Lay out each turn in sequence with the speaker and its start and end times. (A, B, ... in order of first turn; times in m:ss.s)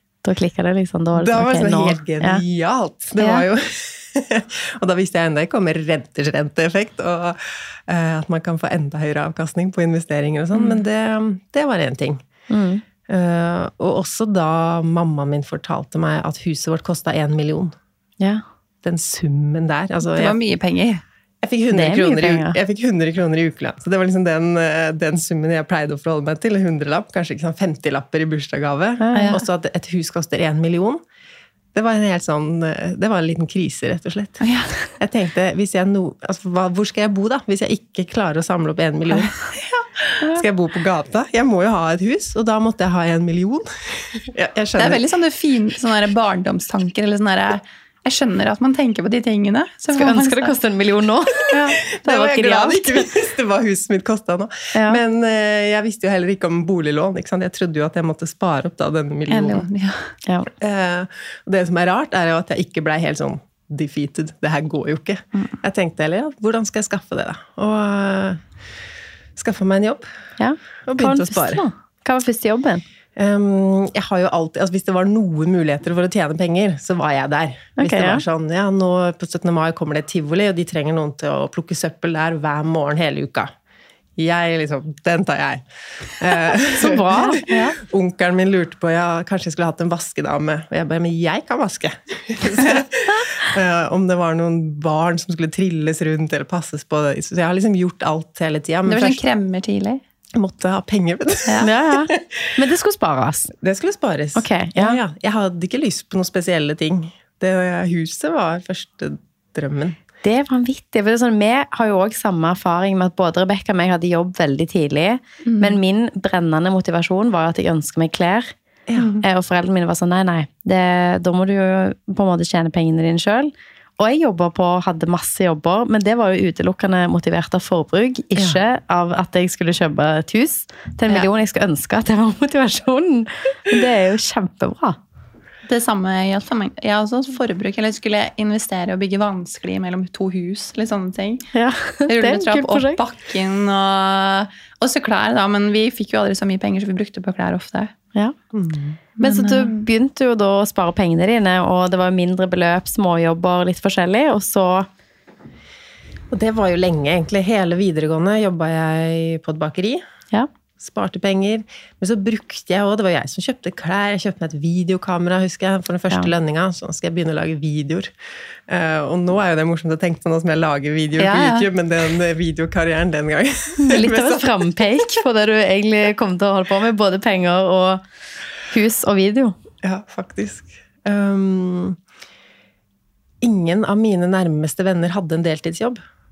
0:00.2-0:02.4 A
0:01.2-0:12.2 B
0:03.2-0:03.5 C
0:12.5-0:12.8 A
0:13.1-0:17.8 B
0:18.8-0:20.4 B
0:20.1-0:21.0 C
0:21.4-0:31.0 B
0:21.7-0:22.6 A
0:29.0-0:29.4 A
0:29.2-0:29.4 C
0:31.7-0:34.5 B
0:34.4-0:34.9 C
0:35.0-0:39.4 B
0:40.2-0:45.0 B
0:44.8-0:50.6 C
0:49.9-0:52.8 A
0:51.5-0:59.7 B
0:52.2-0:52.5 C
0:54.7-0:55.0 A
0:59.3-1:00.1 C
1:00.2-1:00.5 A
1:00.6-1:08.4 B
1:09.4-1:10.1 B
1:10.4-1:12.8 A
1:10.9-1:11.6 B
1:13.2-1:23.5 B
1:17.8-1:18.2 A
1:24.2-1:39.2 B
1:26.8-1:27.4 A
1:27.5-1:27.8 C
1:38.9-1:40.0 C
1:40.4-1:42.5 B
1:41.6-1:43.5 A
1:43.6-1:50.0 B
1:44.4-1:45.0 A
1:50.2-1:58.5 A
1:55.4-1:55.8 C
1:58.9-1:59.2 B
1:59.2-2:15.0 A
2:15.7-2:21.5 C
2:21.5-2:23.0 A
2:22.1-2:27.9 C
2:28.5-2:29.0 B
2:29.2-2:29.9 C
2:29.2-2:34.9 A
2:36.3-2:40.0 B
2:40.8-2:48.1 B
2:48.7-2:55.2 B
2:51.2-2:51.7 C
2:53.8-2:58.0 A
2:58.7-2:59.6 A
2:59.8-3:02.0 B
3:03.4-3:06.0 B